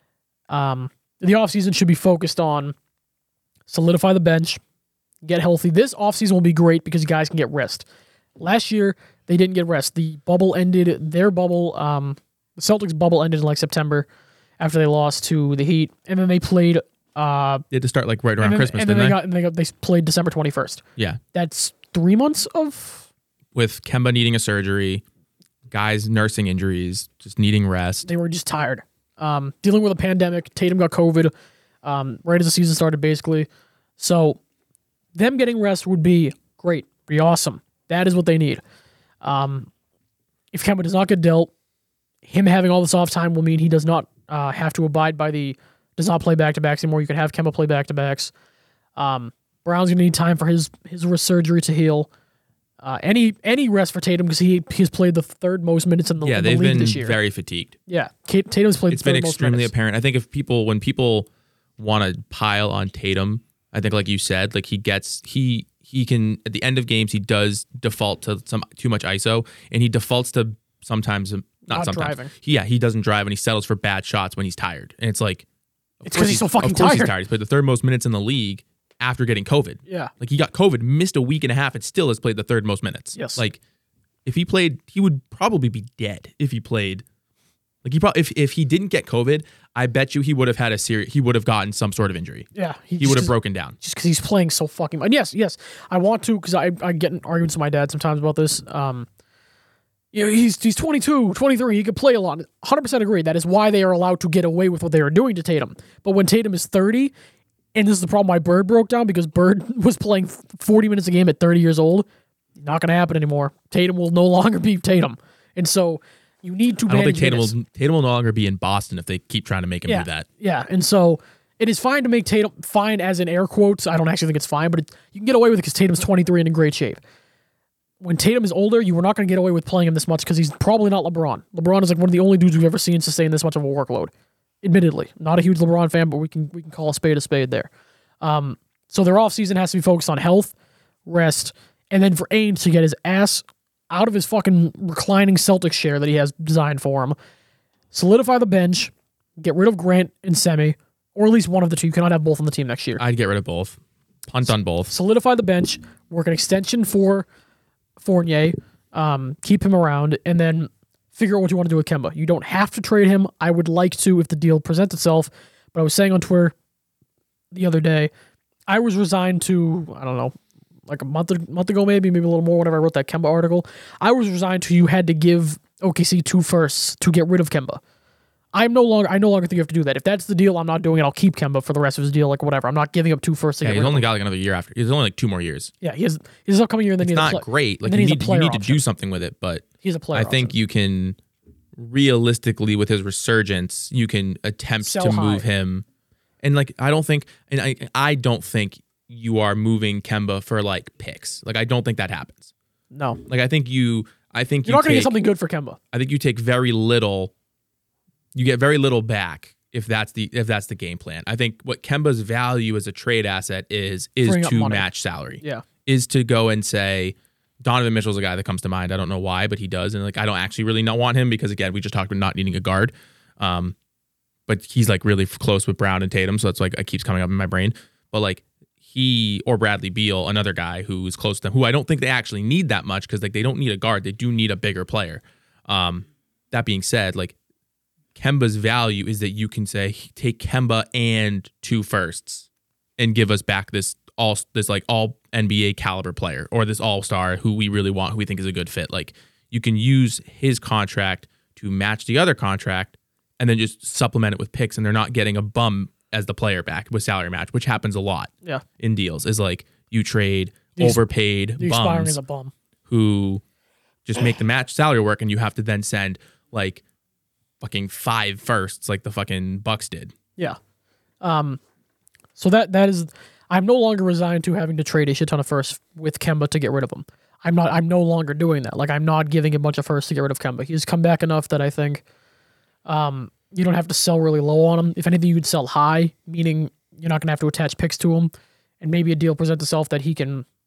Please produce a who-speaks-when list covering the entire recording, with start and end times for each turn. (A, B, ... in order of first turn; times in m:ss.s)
0:00.5-0:02.8 A
0:03.7-0:04.6 A
0:05.2-0:07.9 A
0:08.4-0:14.1 A
0:14.6-0:17.6 A
0:17.7-0:19.2 B
0:18.4-0:23.1 A
0:23.6-0:25.0 B
0:25.7-0:28.1 B
0:28.1-0:31.3 A
0:31.8-0:34.4 A
0:35.2-0:38.6 A
0:39.2-0:39.7 A
0:40.5-0:41.5 A
0:42.2-0:48.3 A
0:49.0-0:52.1 A
0:52.8-0:57.2 A
0:56.2-0:57.8 B
0:57.9-0:59.7 A
0:58.9-1:01.3 B
1:01.8-1:15.4 B
1:11.7-1:12.3 A
1:16.0-1:23.6 B
1:16.1-1:17.1 A
1:23.2-1:23.4 A
1:24.2-1:27.0 B
1:27.8-1:32.5 B
1:32.6-1:39.1 A
1:33.0-1:33.8 B
1:40.1-1:47.1 A
1:47.7-1:52.1 A
1:52.6-1:57.5 A
1:56.9-2:00.3 B
1:59.9-2:07.0 A
2:08.0-2:14.1 A
2:14.6-2:17.7 A
2:18.2-2:20.5 A
2:21.1-2:27.2 A
2:27.9-2:33.0 A
2:33.0-2:33.8 B
2:34.3-2:34.9 B
2:34.9-2:37.3 A
2:38.0-2:46.6 A
2:47.5-2:48.1 A
2:48.7-2:50.3 A
2:50.9-2:57.8 A
2:58.5-3:04.1 A
3:03.6-3:05.7 B
3:05.8-3:08.8 A
3:07.0-3:11.2 B
3:09.8-3:10.5 A
3:11.8-3:15.8 B
3:14.8-3:15.5 A
3:16.4-3:22.5 B
3:22.9-3:23.2 A
3:23.3-3:25.1 B
3:24.6-3:25.8 A
3:25.9-3:27.3 B
3:28.4-3:43.8 B
3:34.2-3:34.8 A
3:44.5-3:57.4 B
3:58.2-4:02.5 B
4:03.0-4:22.2 B
4:20.8-4:21.0 A
4:21.6-4:22.5 A
4:22.9-4:23.4 B
4:24.1-4:26.8 B
4:27.6-4:30.1 B
4:31.2-4:31.6 A
4:32.4-4:42.0 A
4:42.9-4:50.4 A